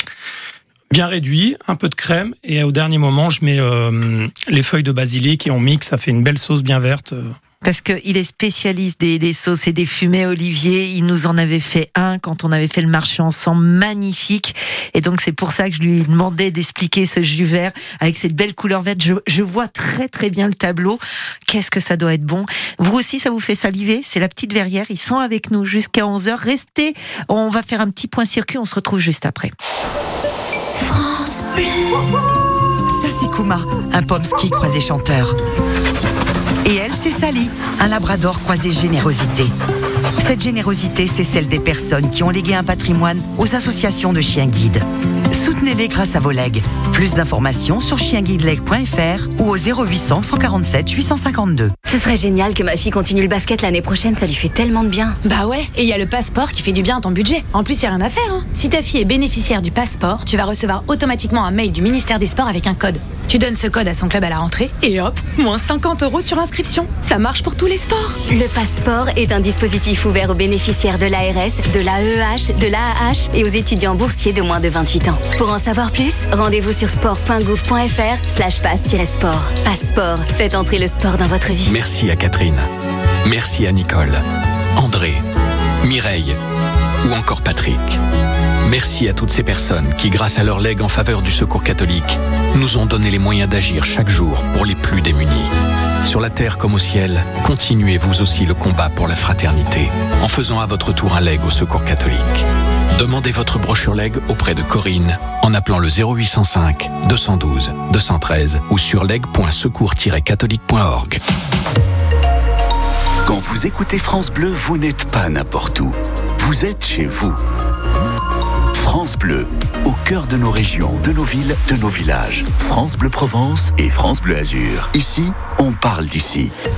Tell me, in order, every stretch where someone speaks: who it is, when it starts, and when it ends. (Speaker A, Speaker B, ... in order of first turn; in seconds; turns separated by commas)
Speaker A: 0.9-7.3, Speaker B: 7.6-29.5, Speaker C: 32.9-35.4, Speaker C: 36.6-39.5, Speaker C: 40.2-51.7, Speaker D: 51.9-55.2, Speaker E: 55.2-68.2, Speaker D: 68.3-81.7, Speaker F: 81.7-82.7, Speaker F: 83.2-84.2, Speaker F: 84.8-85.2, Speaker F: 85.8-86.4, Speaker F: 87.0-88.0, Speaker F: 88.6-95.5, Speaker F: 96.0-111.2, Speaker G: 113.2-117.4, Speaker G: 118.7-126.5